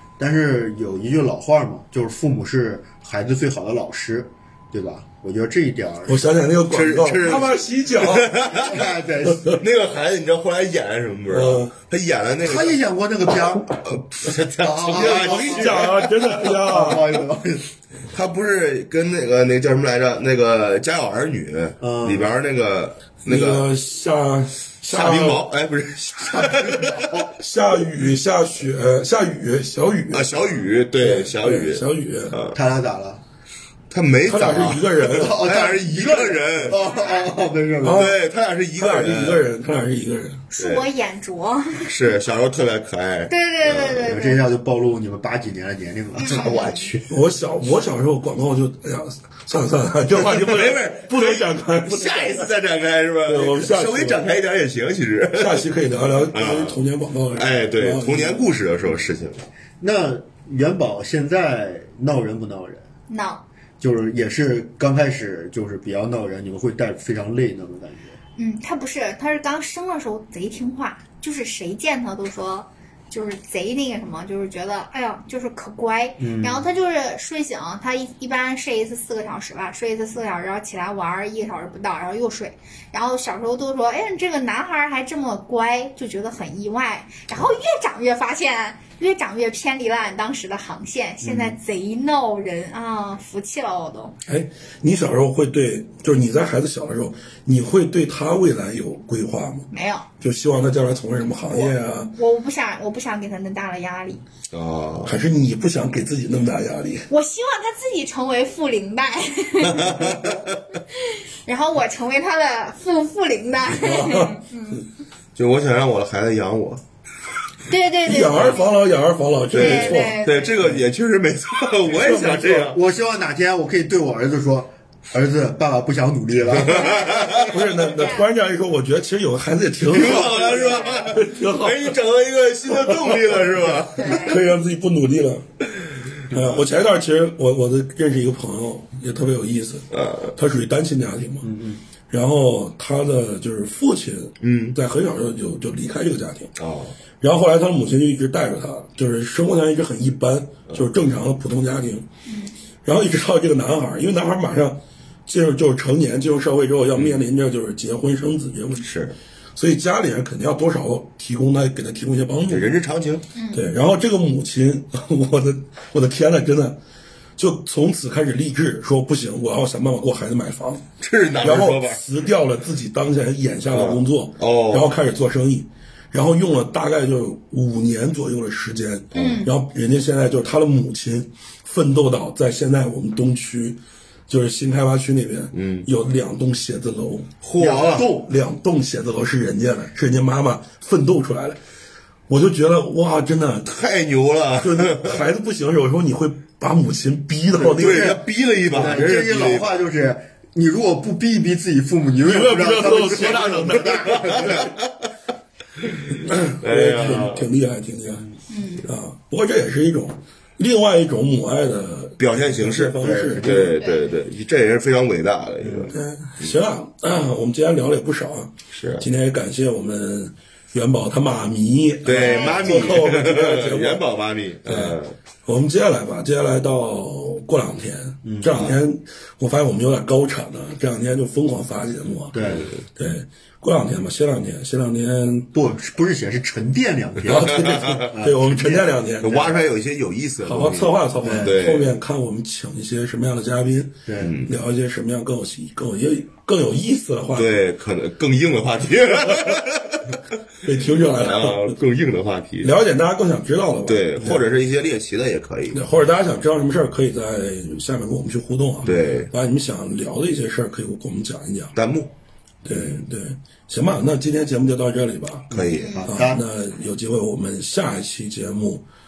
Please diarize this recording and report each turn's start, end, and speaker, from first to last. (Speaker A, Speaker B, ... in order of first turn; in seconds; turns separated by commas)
Speaker A: 0.2-6.4, Speaker B: 6.0-8.6, Speaker C: 6.7-8.9, Speaker A: 8.3-9.6, Speaker C: 9.5-12.8, Speaker B: 11.3-11.7, Speaker A: 12.4-13.7, Speaker C: 13.9-16.6, Speaker A: 14.6-17.7, Speaker B: 14.9-17.2, Speaker C: 18.1-23.6, Speaker A: 21.8-22.3, Speaker B: 23.2-25.5, Speaker C: 24.9-27.3, Speaker B: 26.3-30.3, Speaker C: 30.1-32.6, Speaker B: 31.0-32.4, Speaker A: 32.5-33.2, Speaker C: 33.9-36.8, Speaker B: 34.2-35.4, Speaker A: 35.0-38.1, Speaker D: 36.8-37.3, Speaker B: 37.8-38.2, Speaker C: 37.9-39.5, Speaker B: 38.8-40.4, Speaker D: 40.5-41.9, Speaker C: 40.6-40.9, Speaker C: 41.8-44.1, Speaker D: 43.3-44.4, Speaker A: 44.0-46.9, Speaker D: 46.2-46.9, Speaker C: 46.2-47.0, Speaker B: 47.1-52.5, Speaker C: 50.1-55.6, Speaker B: 53.2-54.2, Speaker B: 55.4-58.5, Speaker C: 56.3-56.8, Speaker C: 57.3-59.5, Speaker A: 59.8-62.8, Speaker D: 63.1-63.4, Speaker A: 63.8-68.2, Speaker D: 68.4-94.2, Speaker A: 76.2-76.7, Speaker A: 91.2-91.6, Speaker B: 94.2-99.7, Speaker D: 99.7-100.1, Speaker B: 100.2-102.1, Speaker D: 101.5-104.2, Speaker C: 104.5-105.2, Speaker B: 105.0-107.1, Speaker D: 107.1-110.3, Speaker C: 109.6-110.5, Speaker D: 110.9-114.8, Speaker B: 113.7-114.8, Speaker C: 115.3-116.8, Speaker D: 117.7-118.7, Speaker B: 118.0-120.8, Speaker C: 119.5-122.8, Speaker D: 119.5-120.6, Speaker B: 121.9-122.7, Speaker A: 122.6-127.1, Speaker C: 126.5-127.5, Speaker D: 126.7-128.2, Speaker B: 127.5-130.5, Speaker C: 129.9-134.3, Speaker A: 130.0-130.8, Speaker D: 130.4-131.0, Speaker B: 131.1-132.0, Speaker B: 132.7-135.5, Speaker D: 134.0-134.4, Speaker B: 136.3-141.5, Speaker C: 139.9-140.3, Speaker A: 141.4-141.8, Speaker B: 142.1-146.5, Speaker C: 144.4-144.8, Speaker C: 146.6-147.0, Speaker B: 147.2-152.1, Speaker D: 152.2-152.5, Speaker B: 152.8-158.8, Speaker C: 158.8-159.2, Speaker B: 159.6-162.7, Speaker C: 162.5-163.2, Speaker D: 163.3-163.7, Speaker B: 163.5-166.8, Speaker B: 167.4-170.8, Speaker C: 171.0-172.0, Speaker B: 171.4-191.6, Speaker C: 173.7-174.9, Speaker C: 179.1-179.4, Speaker D: 179.1-179.5, Speaker C: 185.5-185.9, Speaker C: 187.4-188.1, Speaker A: 187.6-188.3, Speaker B: 192.3-193.7, Speaker C: 193.6-195.2, Speaker B: 194.6-198.2, Speaker A: 197.5-204.7, Speaker C: 197.8-199.7, Speaker B: 202.2-204.5, Speaker C: 204.1-204.8, Speaker B: 206.2-208.3, Speaker C: 206.6-207.5, Speaker D: 208.5-208.9, Speaker B: 208.8-213.6, Speaker C: 212.2-216.6, Speaker A: 213.0-213.8, Speaker D: 213.8-214.0, Speaker A: 215.6-215.9, Speaker B: 215.9-224.0, Speaker C: 218.7-219.1, Speaker C: 222.0-225.2, Speaker D: 222.1-222.9, Speaker B: 224.7-235.5, Speaker A: 228.2-228.7, Speaker A: 232.3-232.7, Speaker C: 232.4-232.7, Speaker A: 235.5-239.5, Speaker C: 237.2-238.0, Speaker B: 237.2-239.5, Speaker C: 239.2-241.9, Speaker B: 240.4-247.7, Speaker A: 241.2-241.6, Speaker A: 244.1-244.4, Speaker C: 244.2-244.5, Speaker C: 247.3-250.2, Speaker B: 250.6-251.7, Speaker C: 251.2-252.7, Speaker B: 252.6-254.4, Speaker C: 253.9-255.8, Speaker B: 255.7-261.7, Speaker C: 258.8-259.3, Speaker C: 261.7-262.1, Speaker B: 262.6-265.6, Speaker C: 262.7-263.0, Speaker A: 265.5-266.5, Speaker C: 265.5-266.0, Speaker D: 265.8-266.1, Speaker B: 266.1-268.8